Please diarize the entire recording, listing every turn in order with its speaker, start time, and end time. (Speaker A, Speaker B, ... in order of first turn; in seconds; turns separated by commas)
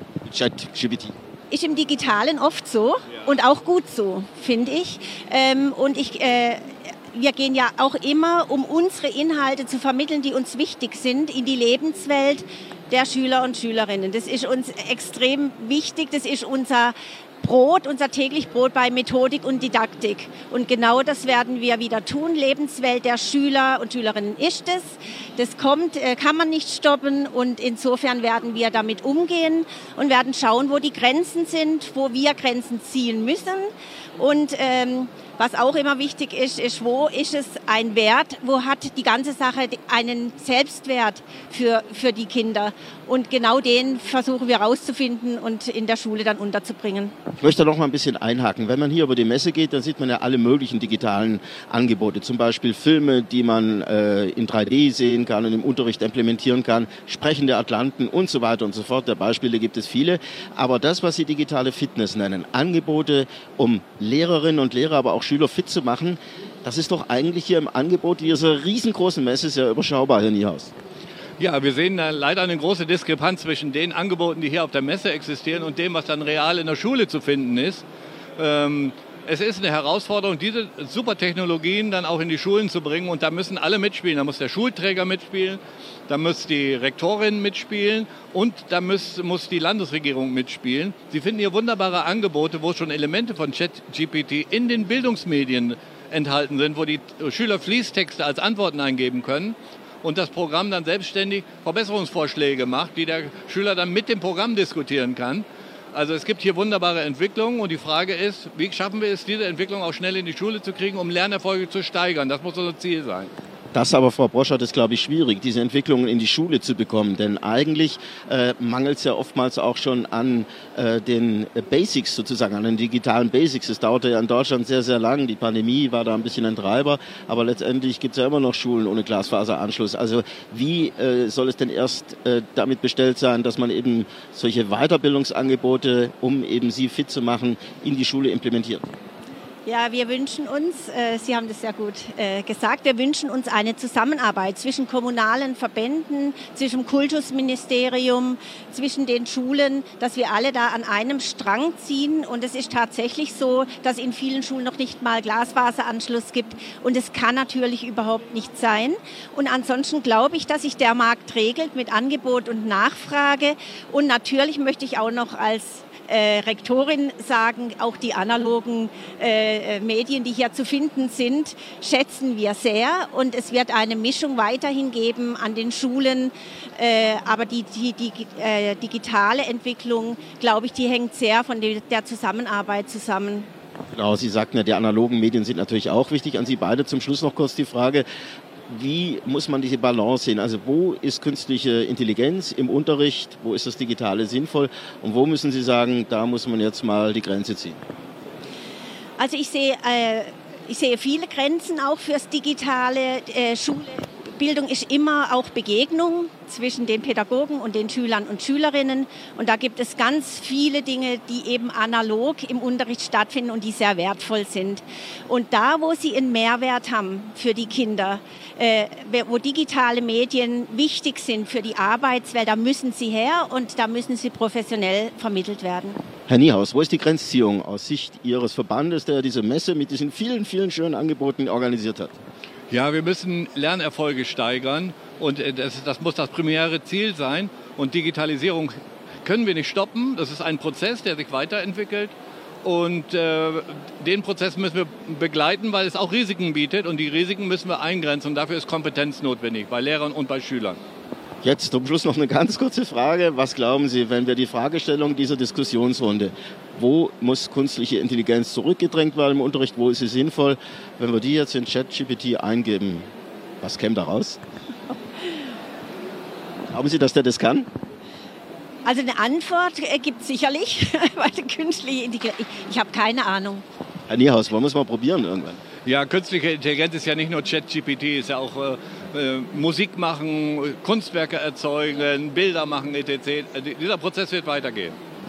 Speaker A: 0.2-1.1, Speaker B: 1.5-47.1, Speaker A: 47.4-70.7, Speaker C: 71.4-77.8, Speaker C: 78.4-113.3, Speaker A: 113.7-138.8, Speaker B: 139.6-183.5, Speaker A: 183.9-188.1, Speaker A: 188.7-197.8, Speaker B: 199.2-226.0, Speaker A: 226.3-232.1, Speaker C: 232.7-250.8, Speaker A: 251.4-263.1, Speaker A: 263.6-264.4, Speaker A: 266.7-267.7, Speaker B: 268.8-273.6, Speaker A: 274.1-275.6, Speaker C: 275.8-285.0